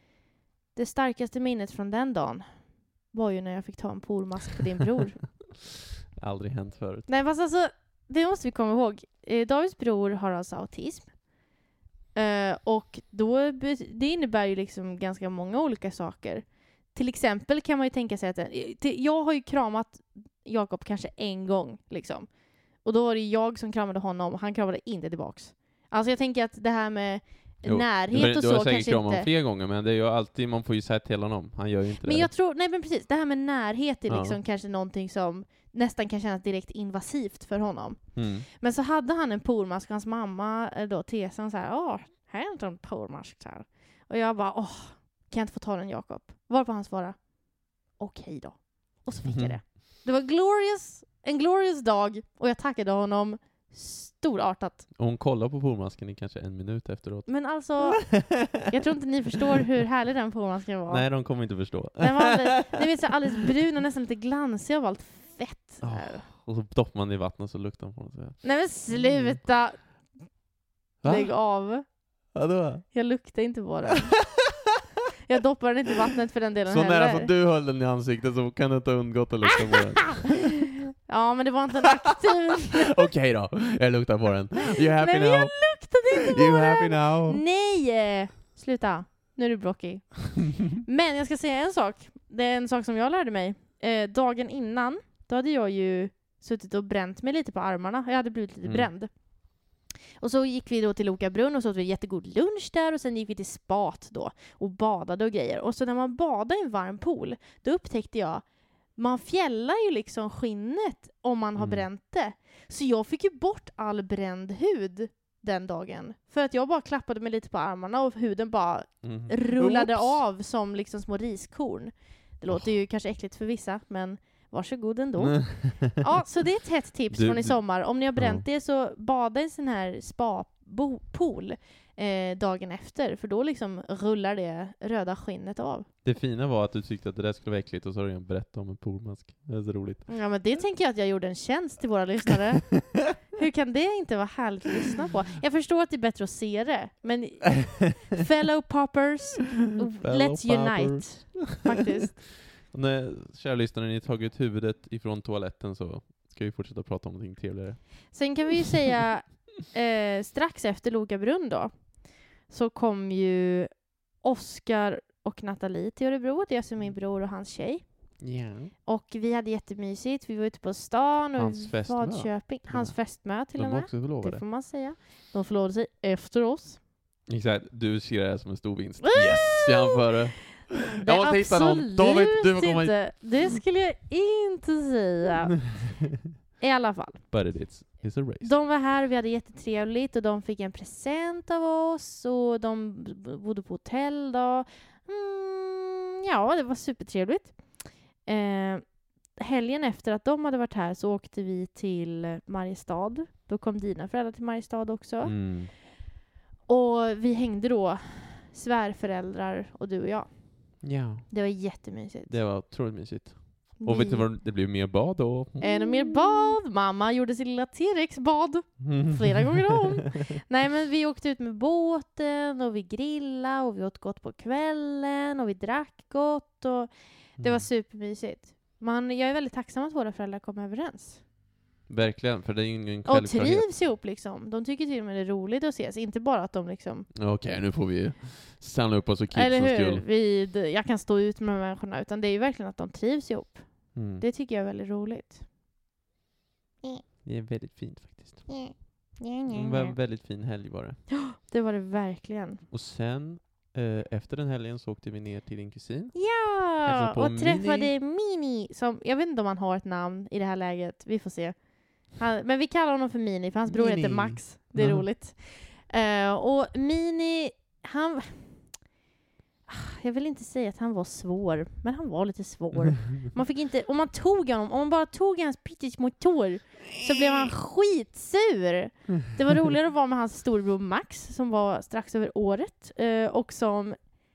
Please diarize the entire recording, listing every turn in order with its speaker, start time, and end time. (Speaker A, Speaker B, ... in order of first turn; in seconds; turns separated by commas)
Speaker A: 0.7-5.2, Speaker B: 6.1-7.1, Speaker A: 7.1-11.1, Speaker A: 12.1-29.3, Speaker B: 27.6-32.3, Speaker A: 32.0-54.9, Speaker B: 34.1-34.4, Speaker B: 38.1-38.5, Speaker B: 49.2-49.6, Speaker B: 55.0-58.7, Speaker A: 57.3-66.2, Speaker B: 60.9-62.8, Speaker B: 65.8-69.4, Speaker A: 68.4-70.3, Speaker B: 71.0-71.3, Speaker A: 71.0-72.0, Speaker B: 72.3-72.9, Speaker A: 72.9-74.3, Speaker A: 75.2-77.3, Speaker B: 76.7-80.5, Speaker A: 81.1-83.0, Speaker B: 82.9-87.4, Speaker A: 84.9-99.1, Speaker B: 98.6-98.9, Speaker A: 100.2-135.9, Speaker B: 111.5-111.9, Speaker B: 119.0-120.2, Speaker B: 125.2-126.0, Speaker B: 127.1-128.4, Speaker B: 136.0-140.1, Speaker A: 140.1-152.2, Speaker B: 150.0-157.9, Speaker A: 158.1-168.2, Speaker B: 168.2-168.7, Speaker A: 168.8-176.8, Speaker B: 171.4-174.4, Speaker B: 177.3-183.0, Speaker A: 179.0-180.0, Speaker A: 180.7-185.8, Speaker A: 186.6-187.2, Speaker B: 187.3-188.6, Speaker A: 188.4-205.6, Speaker B: 205.2-205.7, Speaker A: 206.7-212.4, Speaker B: 210.8-211.3, Speaker B: 212.3-216.4, Speaker A: 213.8-214.3, Speaker A: 215.6-231.2, Speaker B: 218.8-219.8, Speaker B: 227.4-227.7, Speaker B: 231.9-233.7, Speaker A: 233.1-237.1, Speaker B: 237.1-240.0, Speaker A: 239.3-245.4, Speaker B: 243.9-244.2, Speaker B: 247.2-248.5, Speaker A: 248.5-250.0, Speaker B: 249.5-251.0, Speaker A: 251.2-252.6, Speaker B: 252.7-256.2, Speaker A: 256.1-268.8, Speaker B: 256.8-257.9, Speaker B: 263.7-265.1, Speaker A: 269.7-284.1